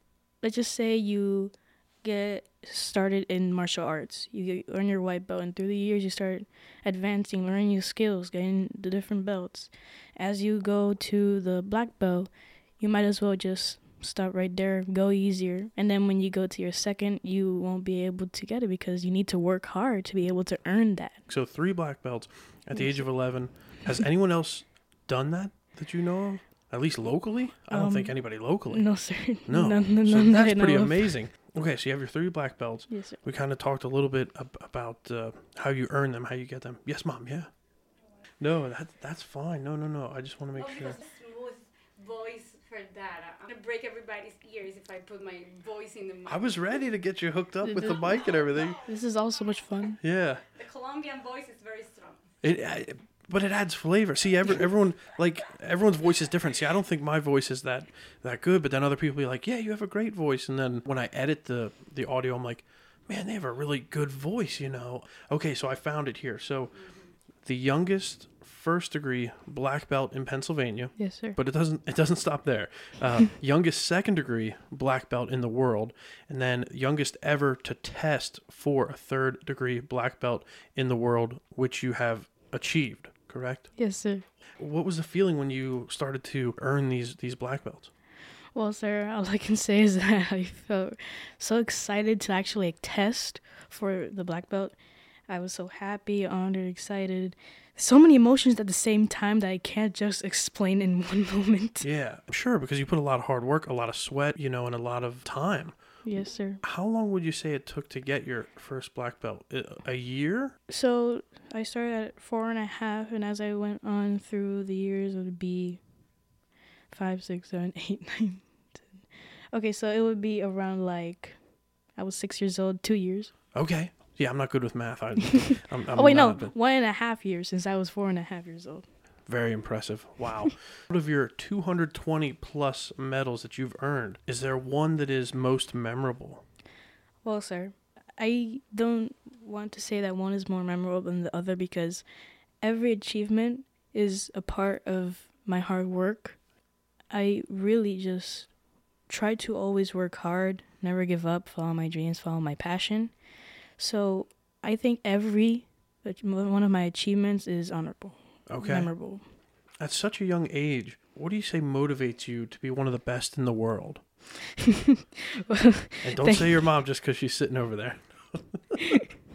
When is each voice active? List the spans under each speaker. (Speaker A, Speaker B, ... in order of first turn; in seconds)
Speaker A: 0.4-21.2, 22.7-23.2, 27.7-31.1, 32.9-33.2, 47.6-48.0, 48.8-50.0, 71.0-71.4, 83.8-84.2, 88.5-101.9, 106.0-106.6, 110.7-115.8, 116.9-123.3, 125.4-128.9, 137.2-142.0, 142.6-146.4, 147.1-148.5, 149.1-153.1, 153.8-159.2, 165.5-166.6
Speaker B: 21.3-37.5, 38.4-41.0, 46.3-48.8, 50.0-50.4, 52.4-84.0, 84.5-87.9, 101.8-106.0, 106.6-110.6, 123.5-126.5, 129.2-136.4, 158.5-159.0, 159.8-164.0, 166.0-168.8
Speaker C: 40.5-46.7, 50.5-52.3, 66.7-67.1